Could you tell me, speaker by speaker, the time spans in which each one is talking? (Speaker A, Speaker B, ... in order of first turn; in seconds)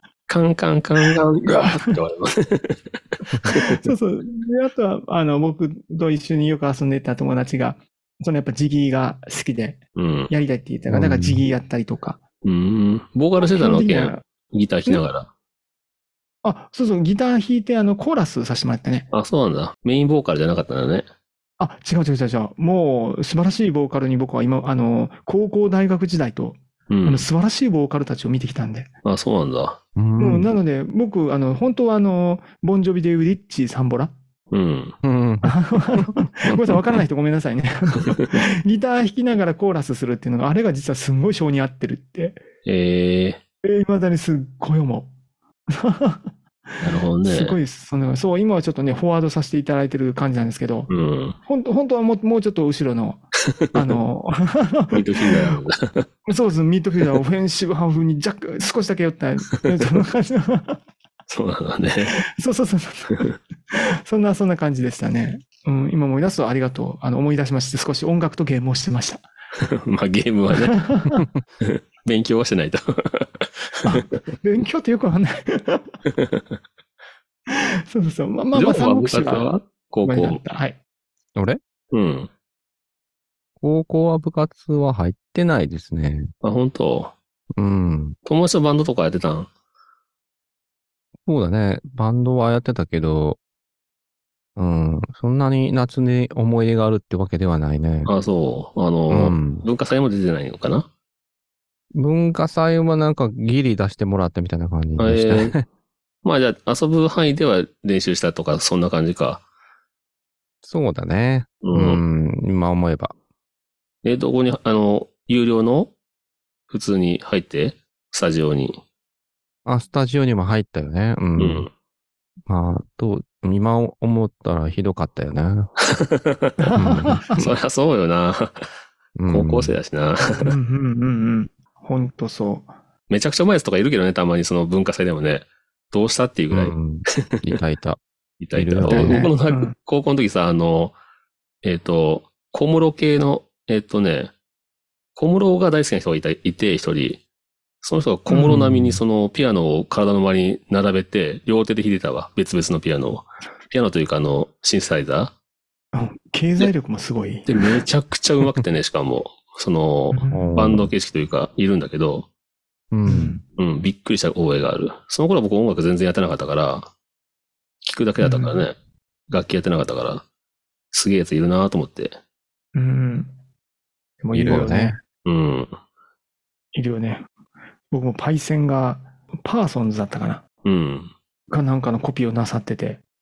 Speaker A: 0.3-3.9, 10.0-10.3, 12.4-15.3, 19.1-21.1, 26.9-27.3, 29.1-29.8, 34.5-35.0, 38.0-38.4, 42.6-43.4, 46.8-47.6, 50.9-51.4, 54.9-56.1, 61.3-62.2, 69.6-70.8, 71.6-74.0, 76.1-76.6, 78.5-80.4, 81.9-82.3, 86.4-87.1, 88.3-89.5, 98.1-100.9, 105.0-105.5, 106.2-109.4, 111.6-112.0, 114.0-115.9, 116.7-118.8, 121.4-121.7, 125.9-126.7, 127.3-128.7, 129.3-130.5, 133.1-136.7, 138.4-141.0, 141.6-144.3, 145.2-147.2, 147.8-155.3, 157.5-162.3, 163.6-166.9, 167.8-168.8, 169.3-170.2, 170.9-172.2, 175.2-175.8, 180.7-181.1
Speaker B: 3.5-12.2, 13.4-14.2, 16.4-19.1, 21.6-28.9, 30.2-34.1, 35.4-42.4, 43.6-45.1, 45.7-50.9, 51.5-53.2, 53.7-55.5, 56.3-60.8, 62.1-69.2, 70.5-71.2, 73.8-76.0, 77.5-79.5, 80.0-80.8, 126.6-127.4, 130.3-132.7, 138.9-139.7, 148.3-148.8, 155.9-157.8, 160.1-160.6, 163.1-163.4, 168.2-168.6, 172.8-173.3, 174.2-175.0, 176.7-177.3, 177.9-180.4, 181.5-183.0
Speaker C: 10.9-11.4, 30.0-30.5, 35.0-36.1, 83.6-86.3, 87.5-88.2, 91.3-93.4, 94.6-98.1, 99.1-99.7, 101.9-105.7, 110.6-113.1, 119.7-121.7, 122.5-125.7, 126.8-127.2, 129.2-129.8, 136.5-138.0, 138.6-139.3, 160.3-160.9, 162.9-163.4, 174.3-175.0